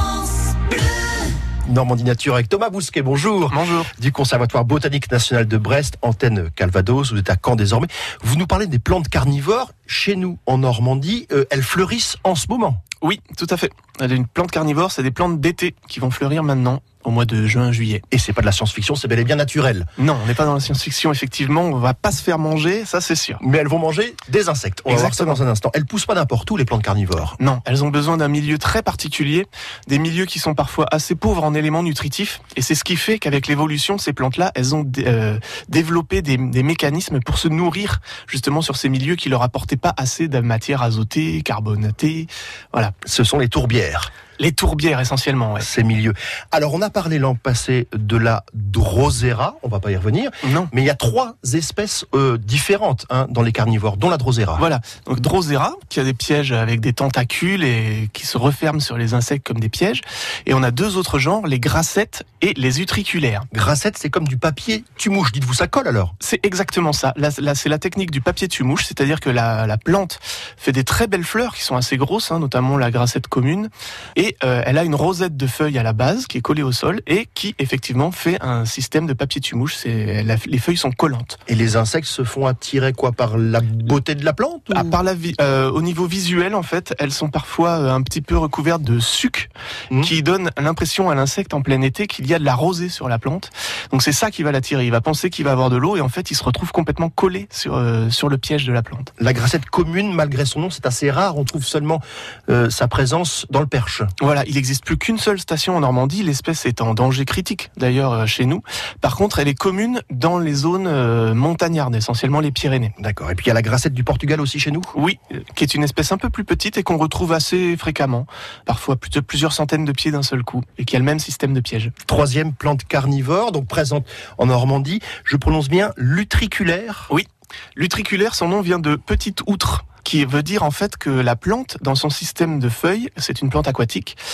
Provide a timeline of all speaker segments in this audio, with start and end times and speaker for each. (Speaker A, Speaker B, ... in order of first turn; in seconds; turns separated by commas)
Speaker A: 1.6-12.8, Speaker B: 3.5-3.9, Speaker B: 13.0-18.0, Speaker A: 18.1-19.9, Speaker B: 20.0-23.4, Speaker A: 23.4-27.4, Speaker B: 24.9-25.4, Speaker B: 27.4-42.9, Speaker A: 43.0-44.1, Speaker B: 44.4-45.7, Speaker A: 45.6-54.6, Speaker B: 50.4-50.7, Speaker B: 54.6-63.5, Speaker A: 63.5-66.1, Speaker B: 66.2-81.4, Speaker A: 81.5-85.0, Speaker B: 84.7-99.1, Speaker A: 99.2-104.1, Speaker B: 104.2-112.9, Speaker A: 113.0-114.9, Speaker B: 114.9-121.9, Speaker A: 122.0-127.1, Speaker B: 127.1-134.2